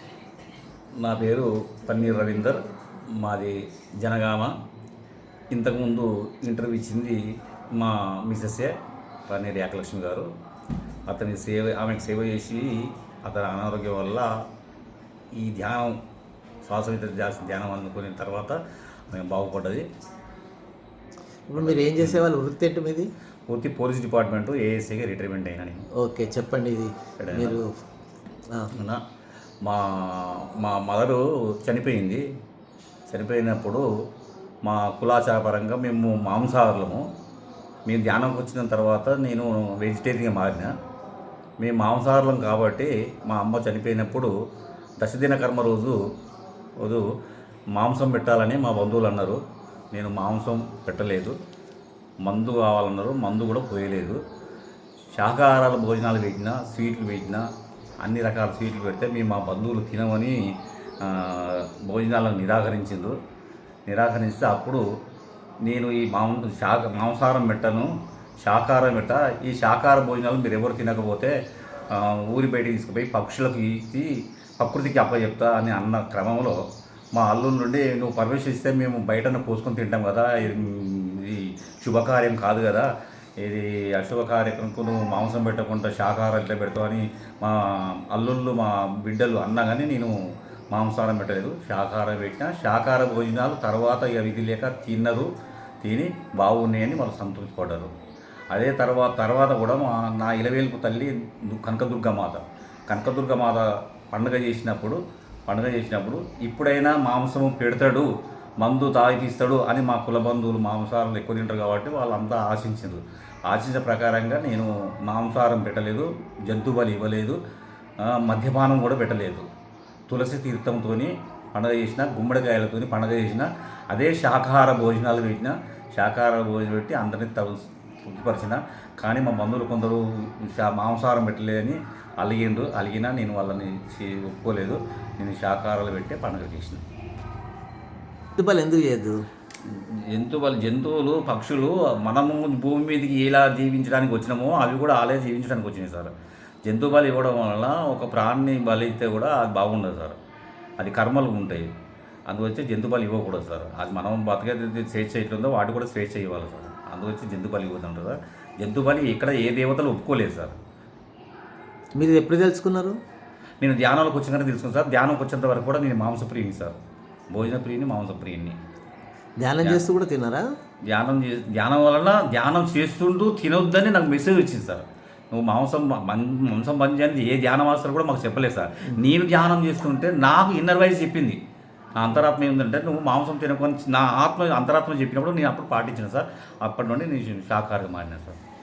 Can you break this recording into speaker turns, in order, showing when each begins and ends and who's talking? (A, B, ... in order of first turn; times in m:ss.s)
0:01.0-0:02.6 A
0:03.2-0:04.5 A
0:05.5-0:07.2 A
0:07.7-0:08.7 A
0:09.3-0:10.3 A
0:11.1-0:14.3 A
0:15.4-0:16.0 A
0:16.6-0:18.6 A
0:19.1-0:19.8 A
0:21.5-0:23.1 B
0:21.6-0:22.3 A
0:23.5-0:25.9 A
0:26.0-0:27.7 B
0:27.2-0:27.6 A
0:28.8-0:29.0 A
0:29.6-0:32.2 A
0:33.1-0:33.8 A
0:34.7-0:37.0 A
0:37.9-0:40.7 A
0:41.6-0:44.3 A
0:45.0-0:46.0 A
0:47.8-0:49.4 A
0:49.9-0:51.4 A
0:52.2-0:54.2 A
0:55.2-0:57.4 A
0:58.0-1:00.4 A
1:01.0-1:03.2 A
1:03.9-1:04.8 A
1:05.6-1:07.9 A
1:08.4-1:11.4 A
1:11.9-1:16.6 A
1:17.2-1:22.9 A
1:23.4-1:30.1 A
1:30.7-1:35.3 A
1:35.8-1:37.9 A
1:38.5-1:48.1 A
1:48.6-1:57.4 A
1:58.0-1:59.5 A
2:00.1-2:16.8 A
2:18.4-2:19.2 B
2:19.6-2:26.1 A
2:26.7-2:30.2 A
2:30.8-2:31.7 A
2:32.3-2:40.6 A
2:42.0-2:43.0 B
2:43.6-2:46.8 A
2:47.3-2:48.6 A
2:49.4-2:50.4 B
2:50.9-3:01.4 A
3:02.0-3:08.4 A